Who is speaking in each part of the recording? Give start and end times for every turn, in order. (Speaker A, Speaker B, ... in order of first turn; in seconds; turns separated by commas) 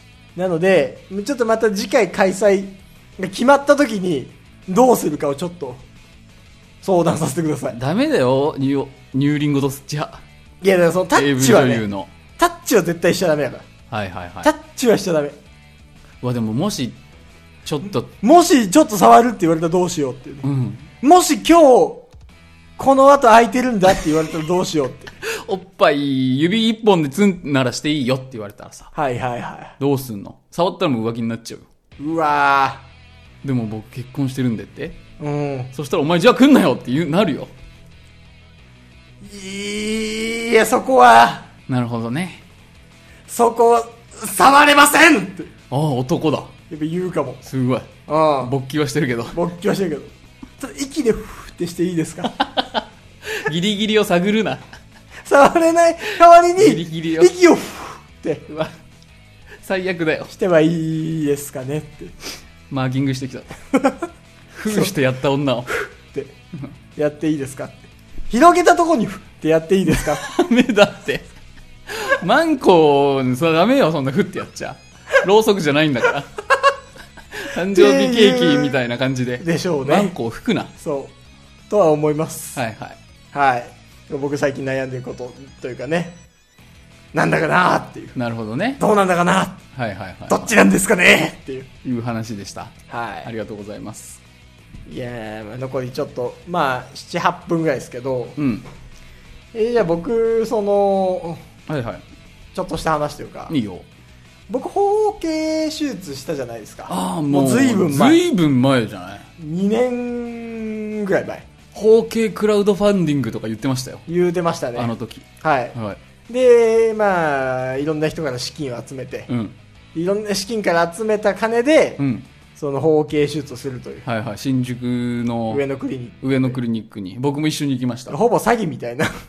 Speaker A: 0.3-5.8, Speaker A: 6.8-7.8, Speaker B: 7.7-10.2, Speaker A: 10.6-11.9, Speaker B: 11.2-12.1, Speaker A: 12.4-13.7, Speaker B: 13.9-14.5, Speaker A: 14.4-15.4, Speaker B: 16.2-17.0, Speaker B: 17.6-18.1, Speaker A: 18.2-20.5, Speaker B: 20.4-20.9, Speaker A: 21.0-22.1, Speaker A: 22.8-25.1, Speaker B: 25.2-28.9, Speaker A: 28.9-29.8, Speaker B: 29.8-31.7, Speaker A: 32.0-32.9, Speaker B: 33.4-35.0, Speaker A: 35.2-35.7, Speaker B: 35.7-37.5, Speaker A: 39.2-41.5, Speaker B: 41.7-42.4, Speaker A: 43.3-45.5, Speaker B: 45.7-46.5, Speaker A: 46.7-47.5, Speaker B: 47.5-49.4, Speaker A: 48.1-48.5, Speaker A: 49.3-52.4, Speaker B: 52.4-54.6, Speaker A: 55.2-58.5, Speaker B: 56.6-57.3, Speaker B: 58.5-58.7, Speaker B: 59.6-60.3, Speaker A: 60.3-62.1, Speaker B: 62.7-63.5, Speaker A: 63.8-64.0, Speaker B: 64.5-65.7, Speaker A: 64.7-64.9, Speaker A: 65.7-66.3, Speaker A: 67.0-70.2, Speaker B: 70.0-71.3, Speaker B: 71.9-76.3, Speaker B: 77.3-80.7, Speaker A: 77.7-78.8, Speaker A: 79.4-80.1, Speaker A: 80.8-81.1, Speaker A: 81.7-82.6, Speaker B: 82.5-83.0, Speaker A: 83.3-86.2, Speaker A: 87.1-88.2, Speaker B: 88.2-88.8, Speaker A: 88.8-89.6, Speaker B: 89.7-90.6, Speaker A: 90.3-91.7, Speaker B: 91.8-94.2, Speaker A: 92.9-93.3, Speaker A: 94.9-98.4, Speaker B: 98.4-98.7, Speaker A: 99.5-101.4, Speaker B: 101.7-102.0, Speaker A: 102.5-103.5, Speaker B: 103.5-103.9, Speaker A: 104.5-108.2, Speaker B: 106.9-109.3, Speaker A: 109.4-111.5, Speaker B: 111.7-114.1, Speaker A: 114.1-115.8, Speaker B: 114.8-116.0, Speaker A: 116.3-119.3, Speaker B: 119.3-119.5, Speaker A: 119.9-122.0, Speaker B: 122.0-122.3, Speaker A: 122.6-124.1, Speaker B: 124.0-125.6, Speaker A: 125.5-126.6, Speaker B: 126.2-128.2, Speaker A: 128.1-129.2